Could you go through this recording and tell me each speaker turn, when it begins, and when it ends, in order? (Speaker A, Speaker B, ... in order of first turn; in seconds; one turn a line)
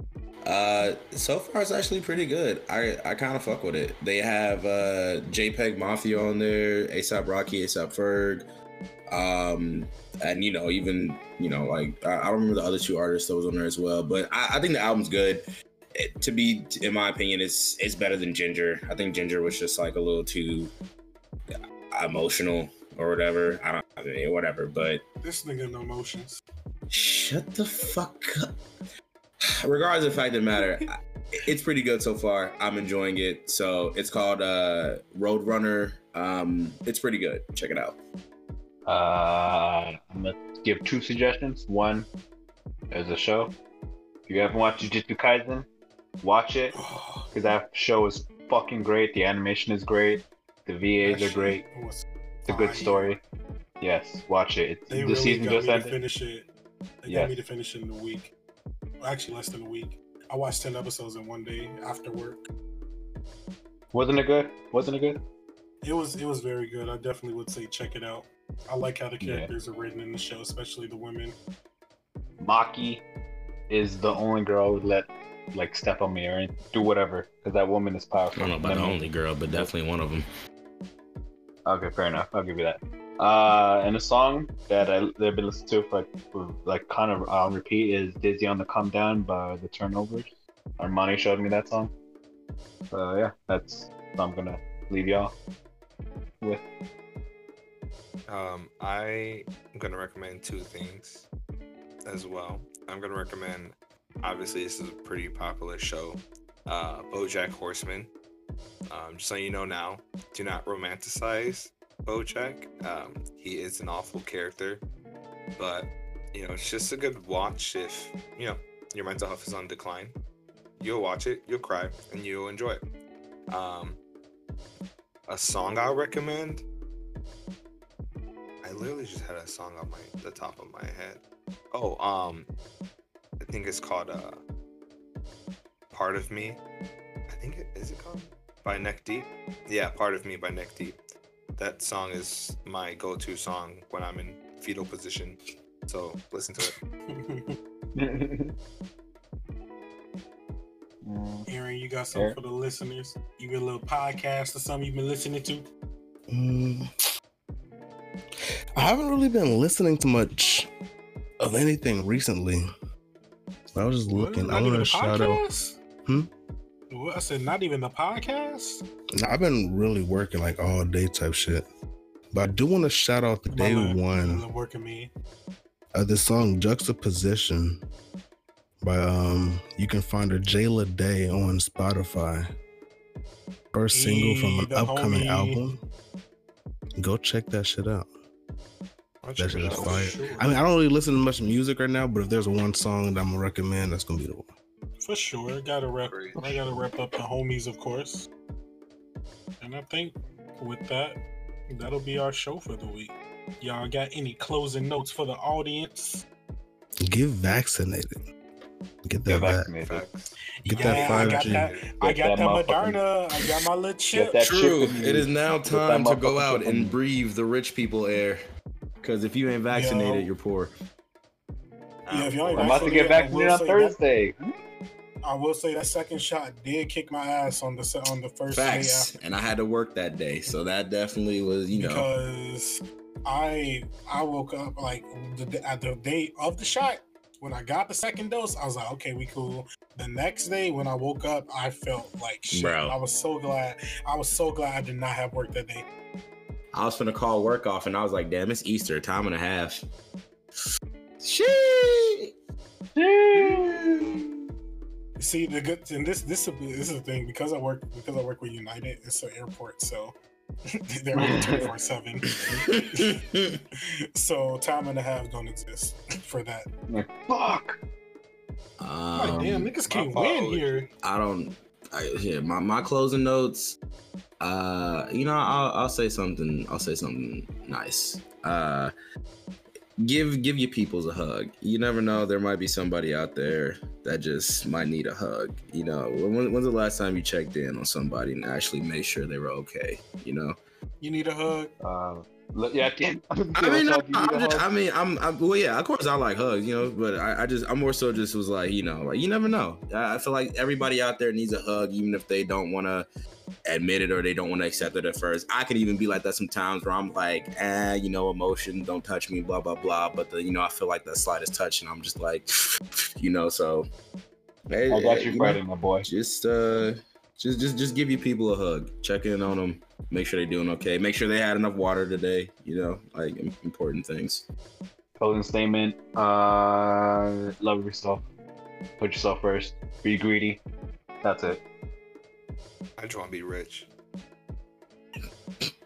Speaker A: 0.4-8.4
Speaker A: 9.1-15.4
Speaker A: 16.0-20.7
Speaker A: 21.9-25.0
Speaker B: 25.2-26.4
Speaker A: 26.9-28.5
Speaker A: 29.6-38.0
Speaker C: 38.9-42.1
Speaker C: 42.9-43.5
Speaker C: 44.3-45.7
Speaker C: 46.2-46.8
Speaker B: 46.7-47.3
Speaker C: 47.3-51.6
Speaker B: 51.0-53.1
Speaker C: 52.5-53.2
Speaker C: 53.8-56.0
Speaker B: 54.9-56.5
Speaker B: 57.0-58.3
Speaker C: 57.1-57.4
Speaker B: 59.0-62.5
Speaker C: 63.9-65.2
Speaker B: 65.8-71.3
Speaker C: 69.2-69.5
Speaker C: 72.4-73.0
Speaker C: 73.7-79.0
Speaker A: 78.3-80.2
Speaker C: 81.7-91.9
Speaker C: 92.9-95.3
Speaker D: 98.3-101.3
Speaker D: 102.0-108.1
Speaker D: 108.9-114.8
Speaker D: 115.6-120.2
Speaker D: 120.8-122.8
Speaker D: 123.5-124.0
Speaker D: 125.3-126.6
Speaker D: 128.6-131.2
Speaker D: 131.7-132.5
Speaker D: 133.4-134.4
Speaker D: 135.9-136.6
Speaker D: 137.3-141.0
Speaker D: 141.6-146.7
Speaker B: 147.1-147.6
Speaker C: 147.9-148.5
Speaker C: 151.0-151.5
Speaker B: 151.5-155.7
Speaker E: 156.3-156.9
Speaker E: 158.8-160.7
Speaker E: 161.4-162.7
Speaker E: 163.7-165.4
Speaker B: 164.1-165.8
Speaker B: 166.9-168.8
Speaker E: 169.2-171.6
Speaker E: 172.3-174.4
Speaker B: 173.5-175.1
Speaker E: 175.9-177.8
Speaker E: 178.8-182.5
Speaker E: 183.7-185.8
Speaker B: 183.9-185.6
Speaker E: 187.0-188.1
Speaker D: 189.2-190.3
Speaker E: 189.4-194.5
Speaker B: 189.6-190.5
Speaker B: 195.0-198.3
Speaker D: 196.0-196.4
Speaker B: 199.6-206.2
Speaker E: 207.0-208.2
Speaker E: 209.0-209.7
Speaker C: 209.3-210.0
Speaker D: 209.8-211.9
Speaker E: 210.6-211.7
Speaker B: 210.7-214.4
Speaker C: 212.0-213.0
Speaker C: 214.1-216.9
Speaker A: 214.4-218.4
Speaker A: 219.0-220.7
Speaker B: 219.7-220.3
Speaker D: 222.0-223.2
Speaker B: 222.1-224.0
Speaker C: 222.6-224.5
Speaker B: 225.2-229.1
Speaker A: 228.5-232.1
Speaker B: 231.7-245.9
Speaker A: 242.5-243.0
Speaker A: 246.7-249.8
Speaker A: 251.2-252.3
Speaker C: 252.9-253.9
Speaker A: 253.4-254.2
Speaker B: 255.2-260.1
Speaker B: 260.9-263.1
Speaker C: 261.1-261.7
Speaker A: 262.5-263.6
Speaker B: 264.1-266.7
Speaker C: 266.9-267.8
Speaker A: 268.8-269.7
Speaker B: 269.1-270.9
Speaker D: 269.9-270.9
Speaker A: 271.0-273.8
Speaker A: 274.4-278.9
Speaker A: 280.0-290.6
Speaker B: 291.0-291.7
Speaker C: 291.8-294.6
Speaker A: 293.6-303.1
Speaker A: 303.6-312.5
Speaker A: 313.2-313.9
Speaker A: 314.7-324.4
Speaker C: 314.9-316.1
Speaker C: 325.2-328.2
Speaker C: 329.0-330.6
Speaker C: 331.2-331.6
Speaker D: 333.0-333.9